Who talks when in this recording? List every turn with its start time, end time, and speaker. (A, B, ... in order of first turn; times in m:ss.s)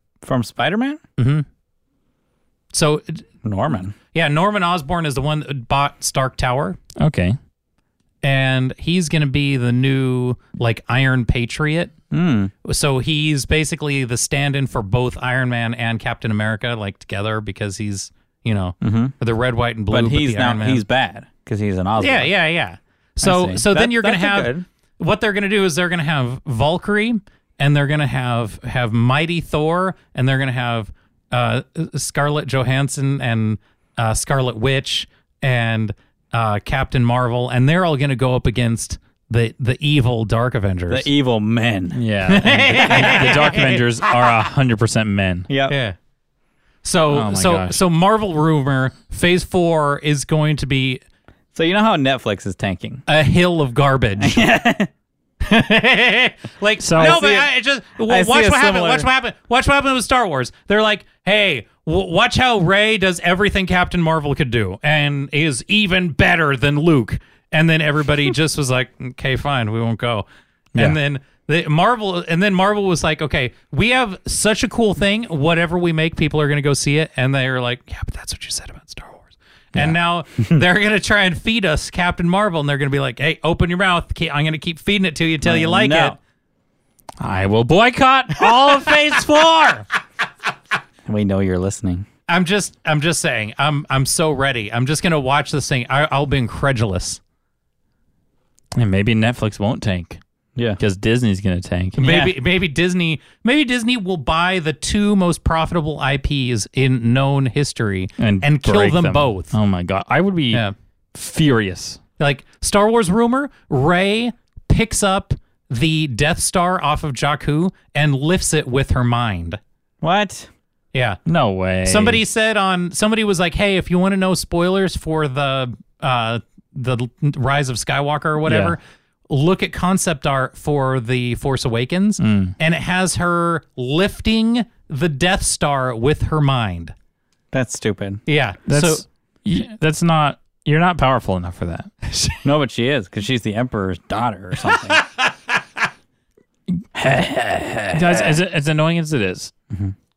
0:00.2-0:01.0 A
0:02.7-0:03.2 B
0:03.4-0:03.9 A
0:04.1-0:06.8 B
0:07.0-0:07.4 C
0:08.2-0:11.9 B
0:12.1-0:12.5 A
0:12.6-0:20.8 B
0:18.8-0:19.1 A
0:19.9-0:22.3 A
0:22.0-0:41.1 B
0:23.2-0:24.6 A
0:40.9-0:42.0 A
0:41.9-0:45.5 C
0:42.3-0:44.1 B
0:42.7-0:43.3 A
0:45.5-0:45.8 A
0:45.7-0:46.0 B
0:46.8-0:51.0 B
0:47.1-0:47.8 C
0:51.5-0:53.0 A
0:53.1-0:54.4 B
0:54.2-0:54.9 A
0:55.4-1:26.2 B
0:56.8-0:57.2 C
0:57.0-0:57.5 A
0:58.1-0:59.1 A
1:25.4-1:26.2 A
1:27.2-1:29.8 C
1:28.4-1:29.8 B
1:31.0-1:32.0 A
1:32.3-1:37.2 B
1:38.8-1:40.2 C
1:40.8-1:42.3 C
1:42.0-1:49.5 B
1:48.2-1:52.0 C
1:52.2-1:59.6 B
2:00.0-2:00.5 A
2:00.9-2:01.2 B
2:01.2-2:02.2 C
2:01.8-2:16.9 B
2:08.4-2:08.8 C
2:12.2-2:12.5 C
2:17.5-2:18.2 A
2:18.2-2:19.0 B
2:18.7-2:21.9 C
2:22.4-2:25.0 A
2:24.7-2:25.3 B
2:26.7-2:29.5 C
2:27.8-2:28.4 A